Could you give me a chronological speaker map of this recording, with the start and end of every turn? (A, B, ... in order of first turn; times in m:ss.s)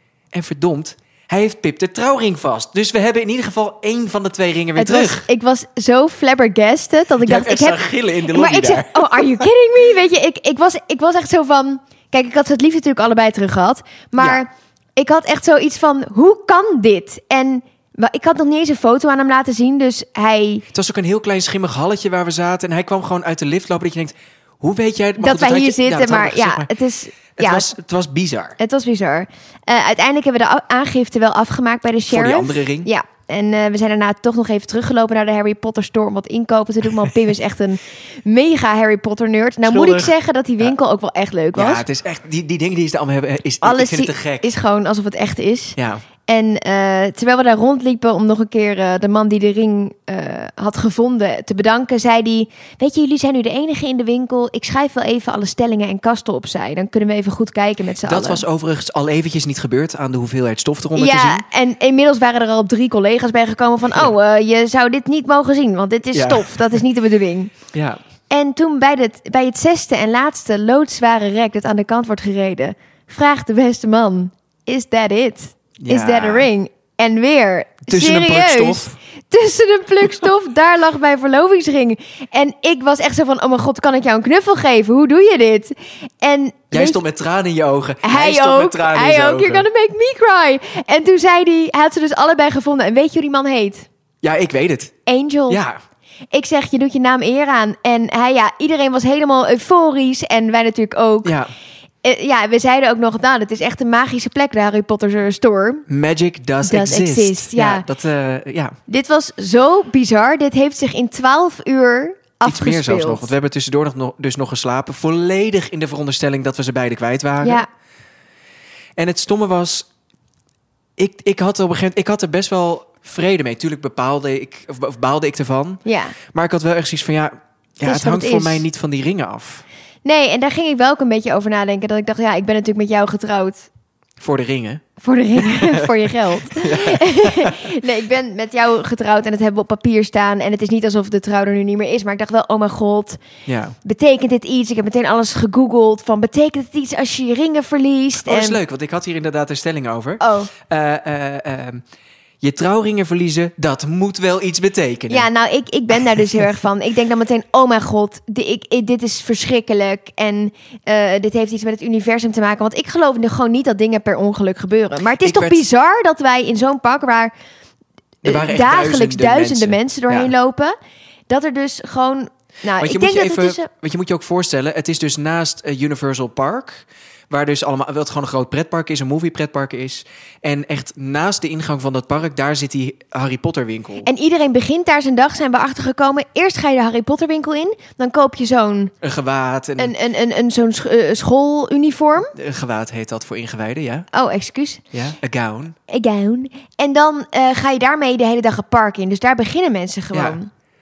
0:00.3-0:05.3 A
0:04.8-0:20.6 B
0:07.2-0:09.3 A
0:14.2-0:14.4 A
0:20.7-0:26.7 A
0:25.2-0:27.7 B
0:27.4-0:28.6 A
0:28.6-0:41.8 B
0:32.1-0:32.9 A
0:39.6-0:40.7 A
0:41.5-0:44.5 A
0:43.6-0:58.4 B
0:45.8-0:46.0 A
0:58.0-1:01.4 A
1:01.0-1:07.5 B
1:06.1-1:06.8 A
1:07.7-1:08.0 A
1:08.3-1:27.0 B
1:15.8-1:16.5 A
1:17.9-1:19.0 A
1:26.7-1:29.7 A
1:28.0-1:33.9 B
1:34.2-1:34.9 A
1:35.1-1:35.6 B
1:35.5-1:35.8 A
1:36.3-1:41.4 B
1:41.2-1:41.5 A
1:42.0-1:45.9 B
1:45.9-1:48.8 A
1:46.6-1:47.9 B
1:48.9-1:53.3 B
1:52.4-1:57.6 A
1:57.4-1:57.7 B
1:59.0-1:59.9 A
2:01.0-2:05.8 A
2:05.8-2:06.2 B
2:06.3-2:09.6 A
2:07.8-2:08.6 B
2:10.0-2:13.7 B
2:14.2-2:14.8 A
2:15.0-2:23.2 B
2:15.4-2:15.9 A
2:16.4-2:17.6 A
2:23.5-2:23.8 A
2:23.8-2:28.6 B
2:28.2-2:31.8 A
2:30.2-2:30.5 B
2:32.4-2:35.3 A
2:35.1-2:47.3 B
2:45.2-2:45.6 A
2:48.2-2:50.3 A
2:48.2-2:50.8 B
2:51.3-2:53.7 B
2:52.8-3:04.1 A
3:04.0-3:08.9 B
3:09.0-3:09.9 A
3:09.8-3:12.3 B
3:12.3-3:14.1 A
3:14.1-3:14.8 B
3:14.9-3:15.8 A
3:15.9-3:20.5 B
3:20.1-3:20.4 A